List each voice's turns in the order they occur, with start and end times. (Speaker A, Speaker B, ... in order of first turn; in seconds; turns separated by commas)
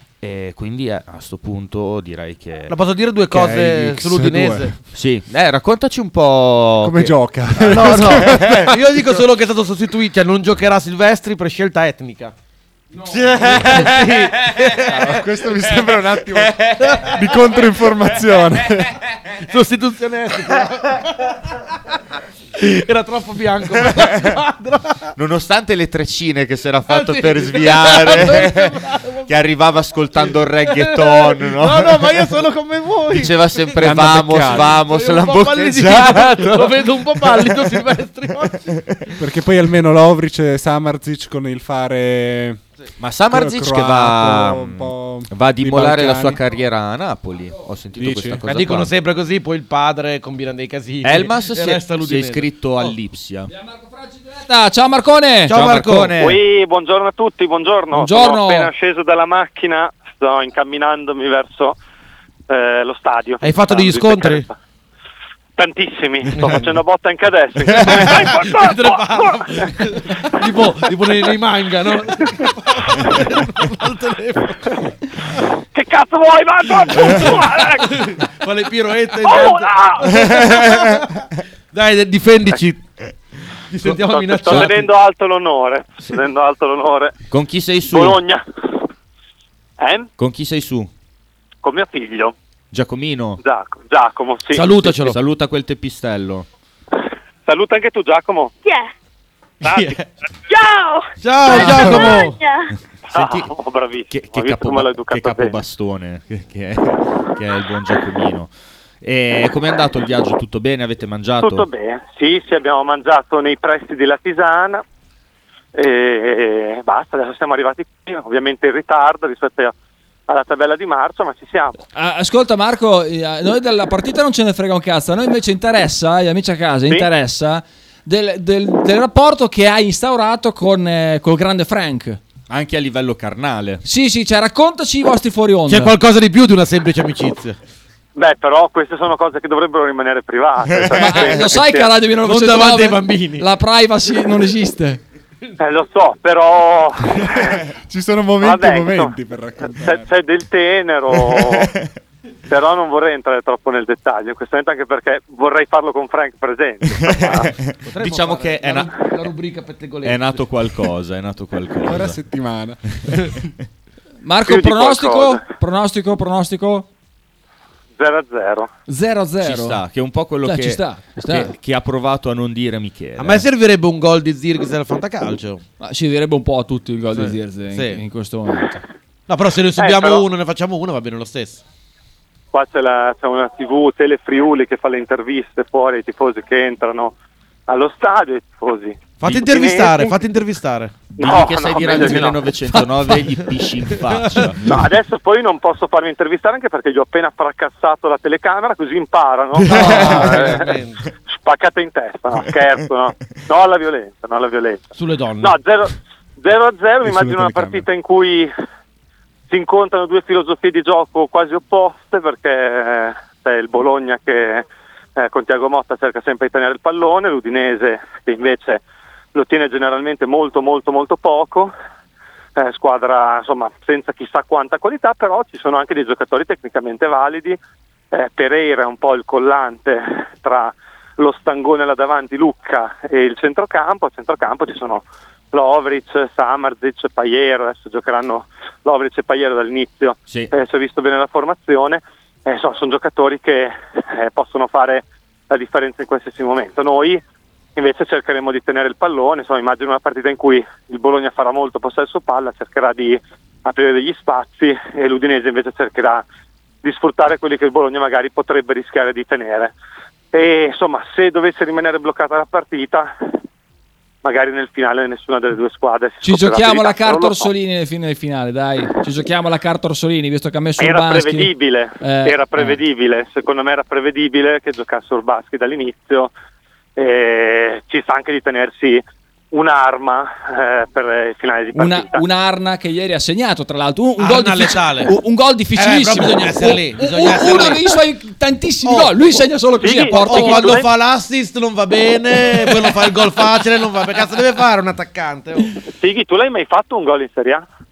Speaker A: 0.2-2.8, Speaker B: 2.7-4.7, Speaker C: 3.3-4.7, Speaker A: 4.9-8.7, Speaker C: 6.8-9.0, Speaker B: 7.6-12.3, Speaker B: 13.1-15.2, Speaker A: 13.2-14.2, Speaker C: 13.4-13.8, Speaker C: 14.8-19.0, Speaker B: 16.8-17.3, Speaker B: 19.4-21.9, Speaker B: 22.5-25.1, Speaker A: 25.1-32.3, Speaker B: 26.9-29.3, Speaker B: 30.2-38.8, Speaker A: 33.1-37.7, Speaker C: 33.8-34.7, Speaker C: 39.2-42.6, Speaker A: 43.0-48.9, Speaker C: 43.3-46.4, Speaker C: 48.0-48.4, Speaker B: 48.5-52.9, Speaker A: 51.0-53.5, Speaker D: 53.5-55.5, Speaker B: 55.5-56.1, Speaker A: 55.5-56.4, Speaker E: 56.2-61.8, Speaker D: 57.9-58.7, Speaker E: 62.5-64.5, Speaker B: 63.4-64.5, Speaker E: 65.6-69.7, Speaker B: 66.3-66.8, Speaker B: 67.7-75.3, Speaker E: 70.2-70.5, Speaker E: 75.7-78.1, Speaker B: 76.9-82.8, Speaker E: 79.2-80.7, Speaker B: 83.7-84.9, Speaker E: 84.0-87.2, Speaker A: 87.3-88.2, Speaker E: 87.8-88.8, Speaker E: 89.8-90.1, Speaker A: 90.2-90.9, Speaker E: 91.6-92.3, Speaker A: 92.7-93.4, Speaker E: 93.4-94.7, Speaker B: 94.5-95.2, Speaker A: 94.8-96.5, Speaker E: 97.5-98.5, Speaker F: 98.6-98.9, Speaker E: 99.6-100.0, Speaker B: 99.6-100.0, Speaker F: 100.5-102.7, Speaker B: 101.2-102.4, Speaker E: 103.1-105.6, Speaker A: 103.1-103.5, Speaker A: 104.1-108.5, Speaker A: 109.0-111.7, Speaker E: 111.4-114.8, Speaker E: 115.7-119.7, Speaker E: 120.3-121.8, Speaker D: 121.9-132.2, Speaker A: 132.5-133.8, Speaker D: 133.8-135.9, Speaker B: 135.7-137.6, Speaker E: 138.1-141.9, Speaker D: 140.9-145.0, Speaker B: 142.2-143.5, Speaker E: 145.6-147.6, Speaker C: 147.8-150.1, Speaker E: 148.4-149.1, Speaker E: 149.7-151.7, Speaker E: 152.5-157.5, Speaker A: 157.0-158.9, Speaker B: 157.8-160.5, Speaker A: 160.0-162.2, Speaker C: 161.8-163.3, Speaker D: 164.2-166.9, Speaker E: 164.4-165.4, Speaker E: 168.0-168.7, Speaker D: 168.9-169.8, Speaker A: 169.4-173.4, Speaker D: 170.4-171.5, Speaker B: 173.2-175.6, Speaker D: 175.8-178.8, Speaker B: 177.1-178.0, Speaker B: 179.3-181.6, Speaker E: 179.8-180.2, Speaker E: 182.5-187.1, Speaker E: 187.7-190.1, Speaker B: 189.2-191.1, Speaker E: 191.2-192.5, Speaker A: 191.2-194.8, Speaker B: 193.1-194.8, Speaker E: 194.6-204.9, Speaker B: 199.6-201.0, Speaker B: 205.0-205.6, Speaker E: 205.4-208.5, Speaker C: 207.0-207.8, Speaker E: 209.5-218.8, Speaker E: 219.3-221.7, Speaker E: 222.6-227.6, Speaker E: 228.1-247.2, Speaker E: 247.8-256.2, Speaker E: 256.8-259.7, Speaker E: 260.3-263.1, Speaker E: 264.2-267.5, Speaker D: 266.2-272.8, Speaker E: 270.8-276.3, Speaker E: 276.9-282.2, Speaker D: 281.7-290.8, Speaker B: 284.2-285.1, Speaker B: 285.8-288.0, Speaker B: 288.8-289.4, Speaker E: 289.8-290.9, Speaker B: 290.1-295.7, Speaker E: 296.0-297.6